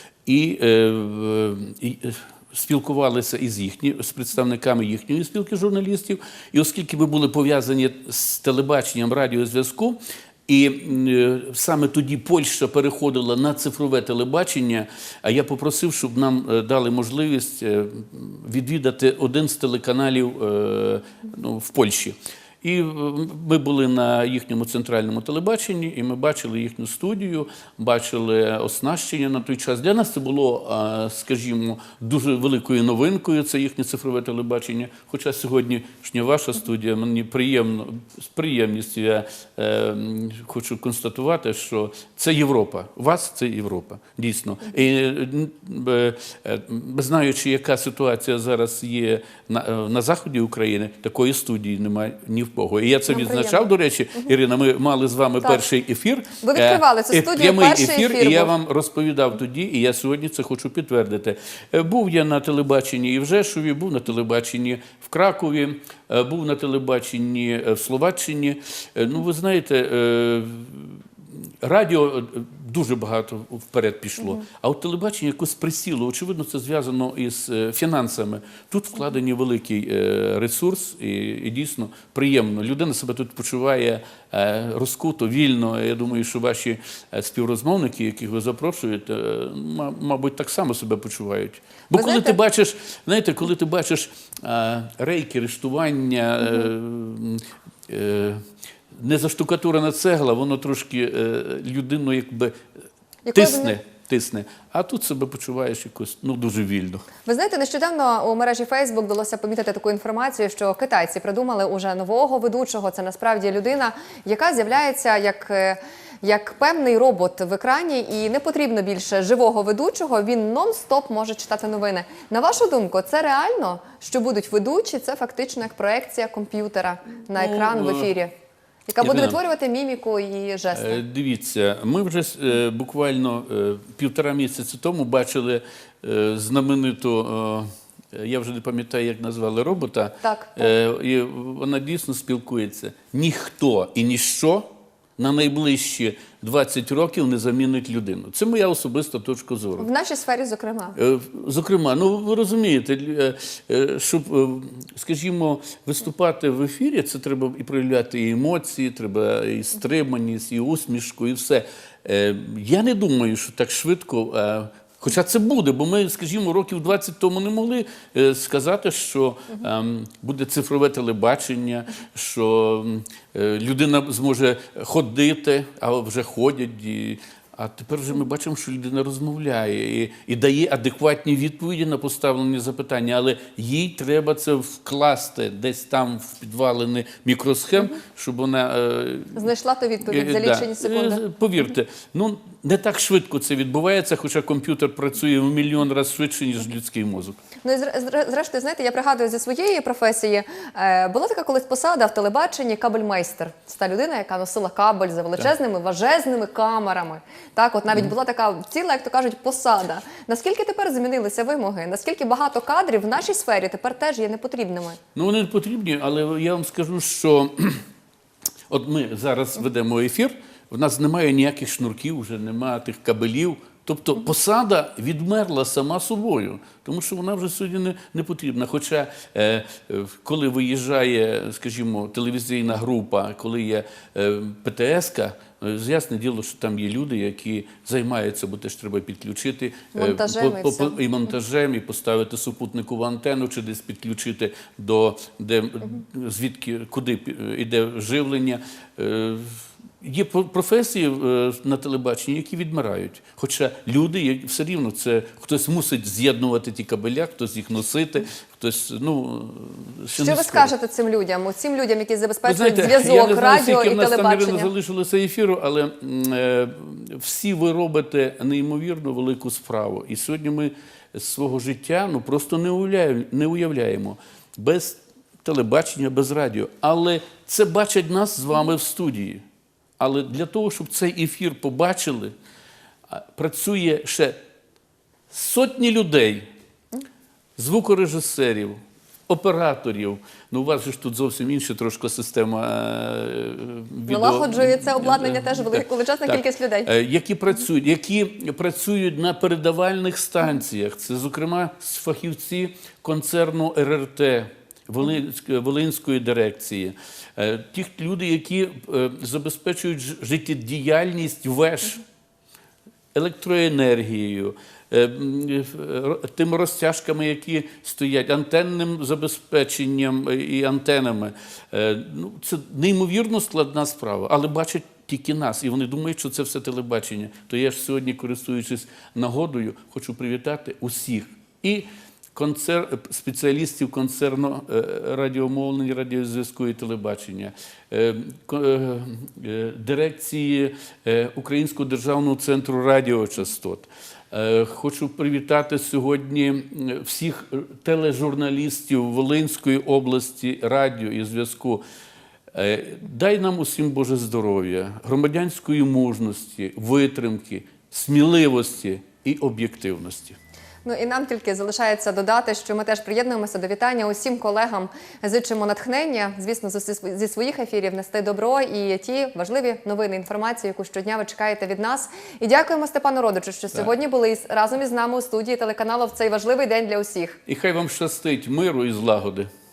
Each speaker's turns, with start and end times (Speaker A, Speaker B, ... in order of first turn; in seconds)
Speaker A: 0.2-102.6, 103.3-107.1, 127.3-128.1, 129.0-129.4, 130.7-149.9, 150.9-189.5, 190.0-197.4, 215.1-217.8, 218.7-260.7, 262.4-279.4, 280.0-282.3, 283.1-284.4, 285.3-286.5, 287.6-312.0, 313.1-351.8, 352.5-360.4, 377.5-379.5
Speaker B: 53.1-53.7, 56.4-58.5, 92.0-92.3, 103.2-103.8, 107.2-128.3, 128.9-131.0, 140.2-140.7, 149.8-150.9, 189.3-191.2, 197.6-215.0, 239.9-241.0, 260.1-264.7, 294.1-296.9, 360.8-377.4